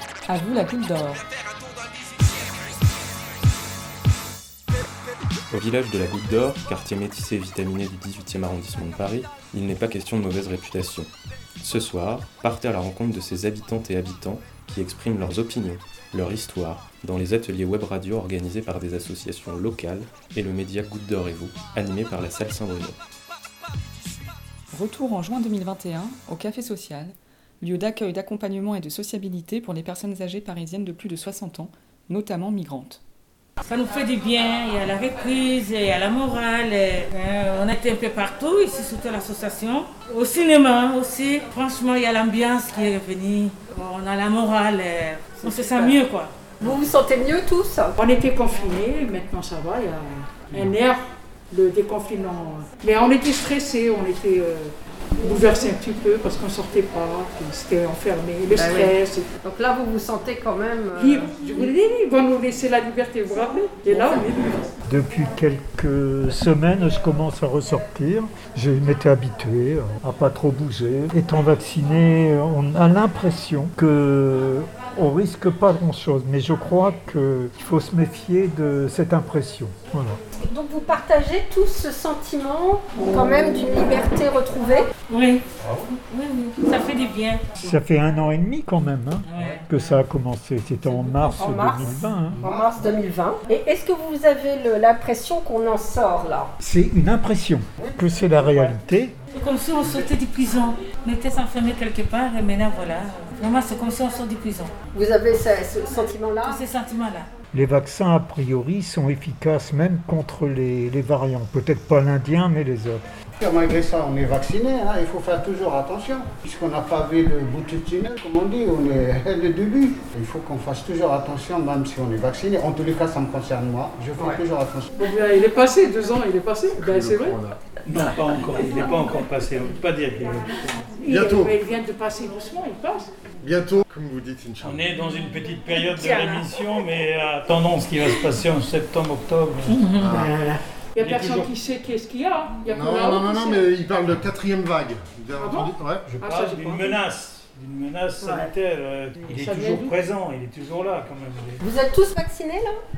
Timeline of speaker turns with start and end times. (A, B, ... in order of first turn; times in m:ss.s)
0:00.3-0:01.2 A
0:05.5-0:11.1 B
0:11.6-0:23.0 B
0:24.7-0:33.0 A
0:33.6-0:46.3 C
0:45.4-0:46.0 D
0:46.6-0:48.0 D
0:48.0-0:59.3 E
0:58.5-1:01.7 D
1:00.9-1:04.7 E
1:04.0-1:04.2 D
1:04.8-1:20.2 F
1:20.4-1:24.9 D
1:25.1-1:25.4 C
1:26.1-1:27.7 C
1:27.6-1:32.4 F
1:29.2-1:30.0 C
1:30.8-1:36.5 D
1:32.4-1:32.9 G
1:36.6-1:39.1 F
1:37.8-1:38.6 G
1:39.3-1:44.7 C
1:44.9-1:46.6 D
1:46.4-1:47.3 C
1:47.5-1:53.0 F
1:53.4-2:04.9 G
2:05.0-2:07.4 E
2:06.7-2:07.7 H
2:07.8-2:11.1 I
2:11.0-2:13.1 E
2:11.1-2:11.6 H
2:13.4-2:14.9 H
2:14.6-2:19.9 I
2:15.8-2:16.4 C
2:19.6-2:20.6 C
2:20.0-2:20.3 H
2:21.0-2:21.5 I
2:21.0-2:23.7 E
2:22.7-2:26.1 H
2:25.4-2:27.0 E
2:26.2-2:31.6 I
2:28.2-2:28.5 D
2:29.2-2:30.0 E
2:31.6-2:32.8 D